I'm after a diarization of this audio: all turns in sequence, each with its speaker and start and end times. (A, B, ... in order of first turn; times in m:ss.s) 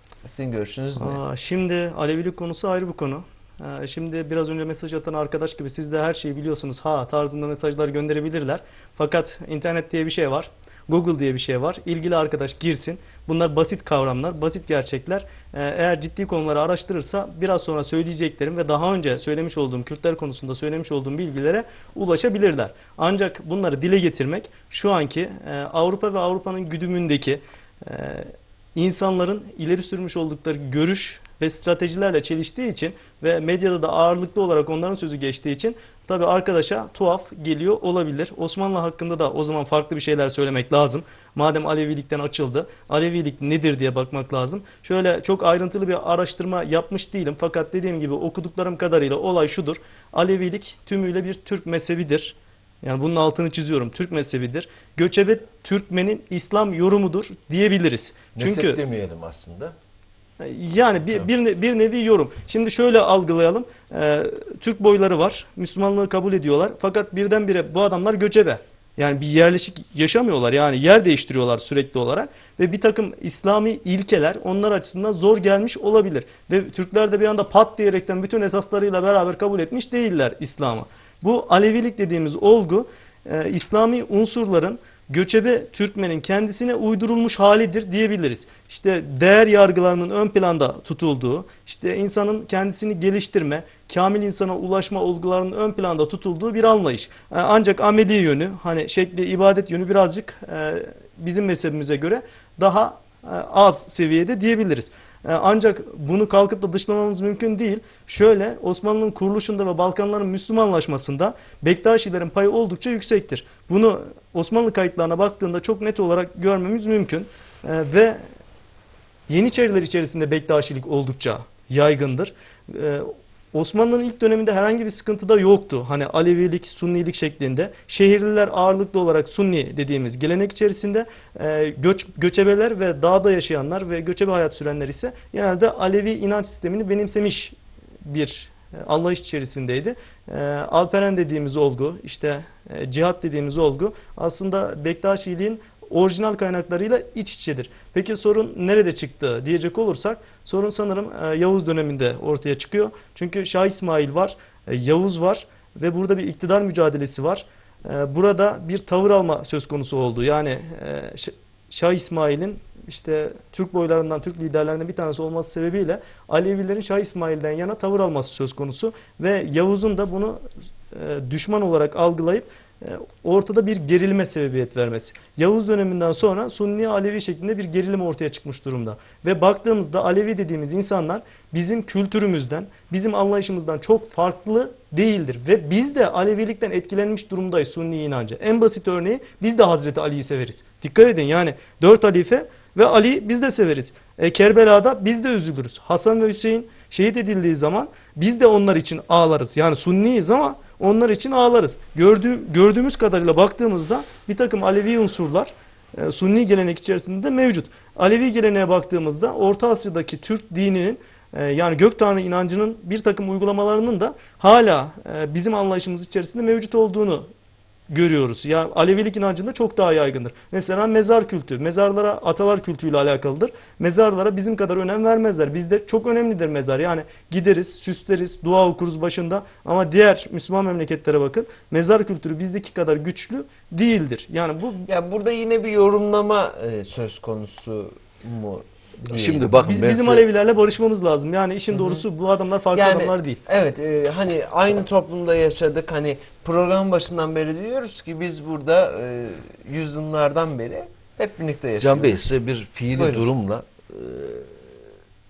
0:00.2-0:01.2 A
0:01.0-0:58.8 B
0:58.4-0:59.7 C
1:00.4-1:58.2 B
1:59.3-3:37.3 B
3:37.9-3:54.9 B
3:54.8-3:59.6 A
3:59.1-4:00.3 C
3:59.6-4:03.4 B
4:01.7-4:02.1 A
4:02.7-4:12.2 A
4:11.8-4:14.7 C
4:12.9-4:13.3 A